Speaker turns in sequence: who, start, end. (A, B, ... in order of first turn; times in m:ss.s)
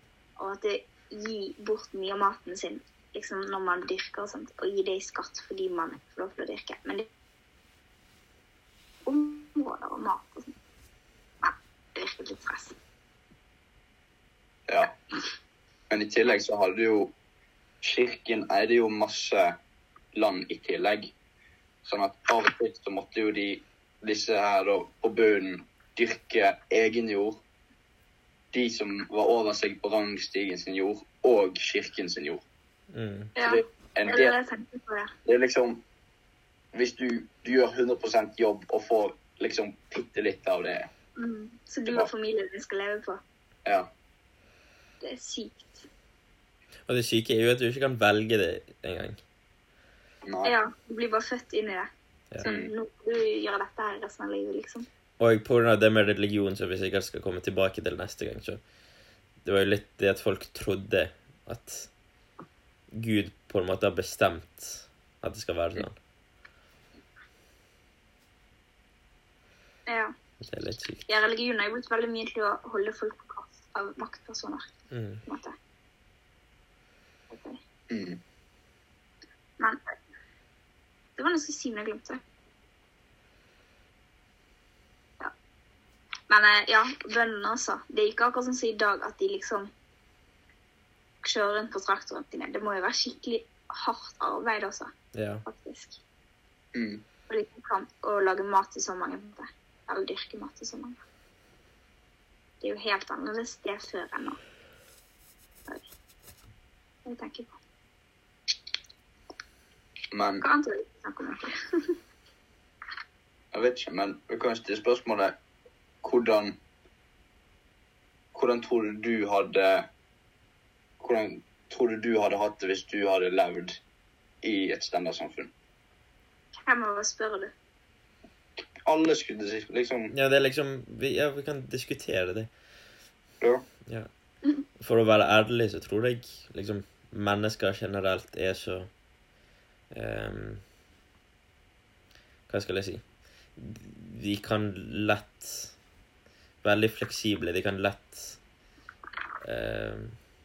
0:00.4-0:07.1 A
0:09.0-0:10.5 A
0:11.4-0:12.7 A
0:14.7-0:14.9 B
0:15.9-0:17.1 B
0:17.8-0:19.5 B
0:20.1-0:21.1 B
0:21.8-0:27.4 B
0:28.5-0:32.4 B
0:32.9-0:33.3 C
0:33.4-0:35.1 A
0:33.4-0:34.4 B
0:35.2-0:35.8 B
0:36.7-0:40.9 B
0:41.2-0:43.2 A
0:43.6-0:43.9 B
0:45.0-0:45.8 A
0:46.9-0:49.2 C
0:50.2-0:50.6 B
0:50.4-0:54.8 A
0:52.4-0:52.7 B
0:55.2-0:58.6 C
0:59.4-1:01.9 C
1:02.9-1:06.0 C
1:09.9-1:10.1 A
1:10.4-1:11.1 C
1:11.1-1:14.6 A
1:14.9-1:15.2 C
1:15.2-1:15.5 A
1:17.3-1:17.6 A
1:17.9-1:18.2 B
1:21.2-1:22.2 A
1:26.3-1:29.7 A
1:31.2-1:34.9 A
1:35.1-1:35.4 C
1:35.4-1:36.0 A
1:36.7-1:37.0 B
1:37.3-1:41.0 A
1:42.6-1:44.4 A
1:47.0-1:47.5 A
1:50.1-1:50.4 B
1:50.4-1:51.9 A
1:53.5-1:55.4 B
1:56.0-1:56.6 B
1:58.3-1:59.9 B
2:01.0-2:03.8 B
2:04.4-2:05.5 B
2:06.6-2:07.5 A
2:08.8-2:10.1 B
2:10.1-2:12.5 C
2:14.8-2:18.9 C
2:19.9-2:20.6 C
2:22.5-2:23.0 C
2:23.6-2:25.7 C
2:26.6-2:28.4 C
2:29.4-2:30.1 C